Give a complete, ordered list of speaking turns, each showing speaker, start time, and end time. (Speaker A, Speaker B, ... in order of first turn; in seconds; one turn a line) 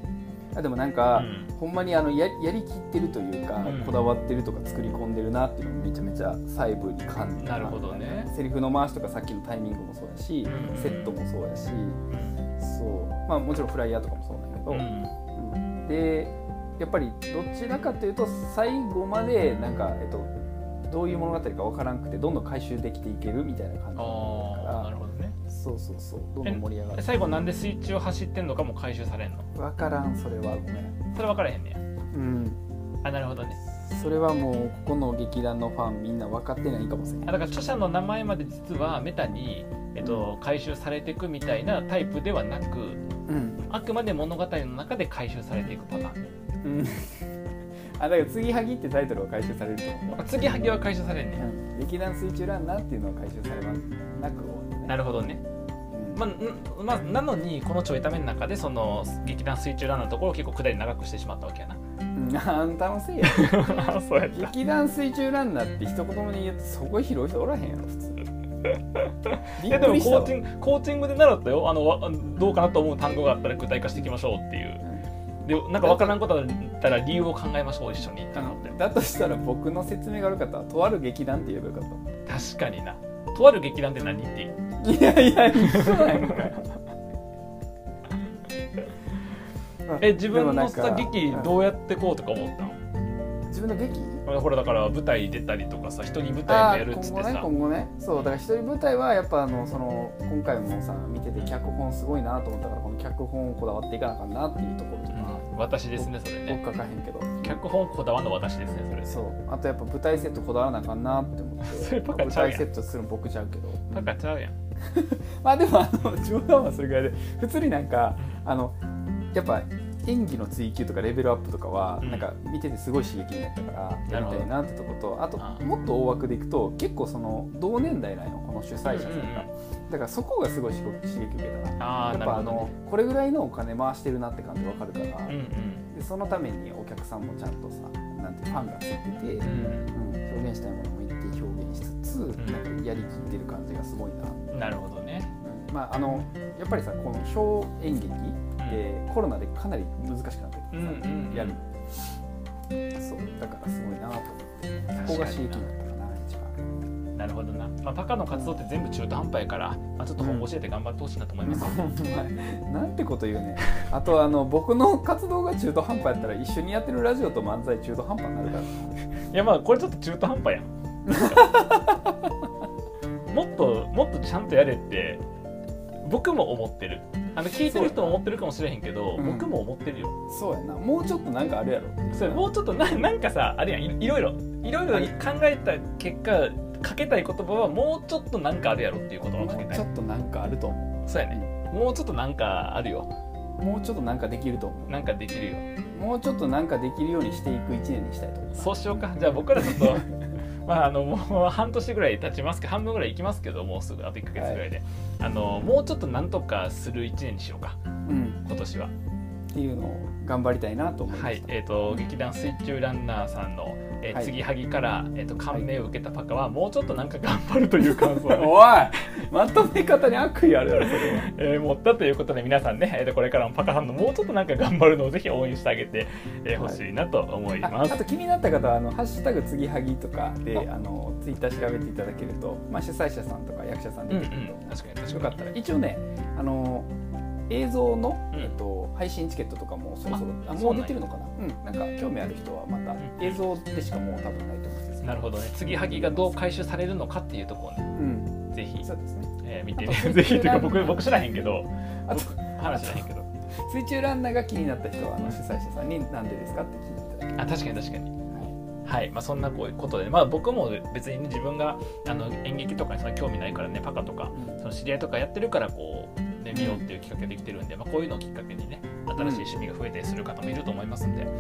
Speaker A: 0.5-12.0
Speaker B: 1.1-1.5
Speaker B: 3.6-4.0
Speaker B: 7.4-8.3
Speaker B: 10.4-11.2
Speaker B: 12.1-12.4
Speaker A: 12.6-20.3
Speaker B: 14.7-15.2
Speaker A: 20.9-24.9
Speaker B: 24.0-25.4
Speaker A: 25.5-27.1
Speaker B: 26.4-29.5
Speaker A: 29.6-31.0
Speaker B: 31.1-31.8
Speaker A: 32.1-32.6
Speaker B: 33.0-33.6
Speaker A: 33.8-37.4
Speaker B: 37.3-43.0
Speaker A: 40.0-40.3
Speaker A: 43.3-43.6
Speaker B: 43.7-46.3
Speaker A: 46.6-47.2
Speaker A: 48.0-50.8
Speaker B: 50.2-51.5
Speaker A: 51.4-55.0
Speaker B: 54.9-55.4
Speaker A: 55.9-56.3
Speaker B: 56.1-61.8
Speaker A: 62.1-63.8
Speaker B: 63.2-64.5
Speaker A: 64.3-68.2
Speaker B: 68.7-74.8
Speaker A: 69.6-70.4
Speaker A: 74.8-75.1
Speaker B: 75.4-78.8
Speaker A: 75.8-76.2
Speaker A: 78.3-82.1
Speaker B: 82.3-84.5
Speaker A: 84.8-86.6
Speaker B: 85.6-86.5
Speaker A: 89.9-91.7
Speaker B: 90.0-92.8
Speaker A: 93.5-94.2
Speaker B: 94.3-97.5
Speaker A: 96.5-107.6
Speaker B: 105.1-106.6
Speaker B: 107.4-109.2
Speaker A: 109.1-114.1
Speaker B: 111.6-112.7
Speaker B: 113.9-114.5
Speaker A: 114.8-118.8
Speaker A: 119.3-135.4
Speaker B: 122.0-122.3
Speaker B: 124.1-124.5
Speaker B: 128.8-129.5
Speaker B: 131.8-132.7
Speaker B: 135.3-135.9
Speaker A: 135.9-144.5
Speaker B: 139.4-139.9
Speaker B: 142.4-142.6
Speaker B: 144.5-145.3
Speaker A: 145.4-151.7
Speaker B: 150.7-151.6
Speaker A: 152.9-156.6
Speaker B: 154.9-155.7
Speaker B: 157.2-161.9
Speaker A: 158.3-158.6
Speaker A: 160.2-160.5
Speaker A: 161.4-168.9
Speaker B: 169.3-171.8
Speaker A: 171.1-172.3
Speaker B: 173.3-175.2
Speaker B: 176.0-180.2
Speaker A: 177.5-178.2
Speaker A: 179.2-179.5
Speaker A: 180.3-182.5
Speaker B: 182.1-189.8
Speaker A: 184.9-185.1
Speaker A: 189.4-191.5
Speaker B: 191.1-193.1
Speaker A: 193.6-195.1
Speaker B: 194.9-195.7
Speaker A: 195.9-200.1
Speaker B: 198.6-200.1
Speaker B: 200.7-207.8
Speaker A: 204.3-204.6
Speaker A: 208.1-208.4
Speaker B: 208.4-208.9
Speaker A: 209.5-212.1
Speaker B: 211.1-219.1
Speaker A: 217.9-221.3
Speaker B: 220.8-228.0
Speaker A: 226.6-226.8
Speaker A: 227.6-236.9
Speaker B: 234.1-235.5
Speaker A: 237.5-246.4
Speaker B: 240.1-241.0
Speaker B: 243.0-243.4
Speaker B: 245.0-247.9
Speaker A: 248.0-248.3
Speaker B: 248.5-248.9
Speaker A: 248.8-251.2
Speaker B: 249.4-253.3
Speaker A: 252.1-253.1
Speaker A: 253.6-257.6
Speaker B: 257.4-258.1
Speaker A: 258.3-258.6
Speaker B: 258.9-271.3
Speaker A: 266.5-266.9
Speaker A: 269.2-269.5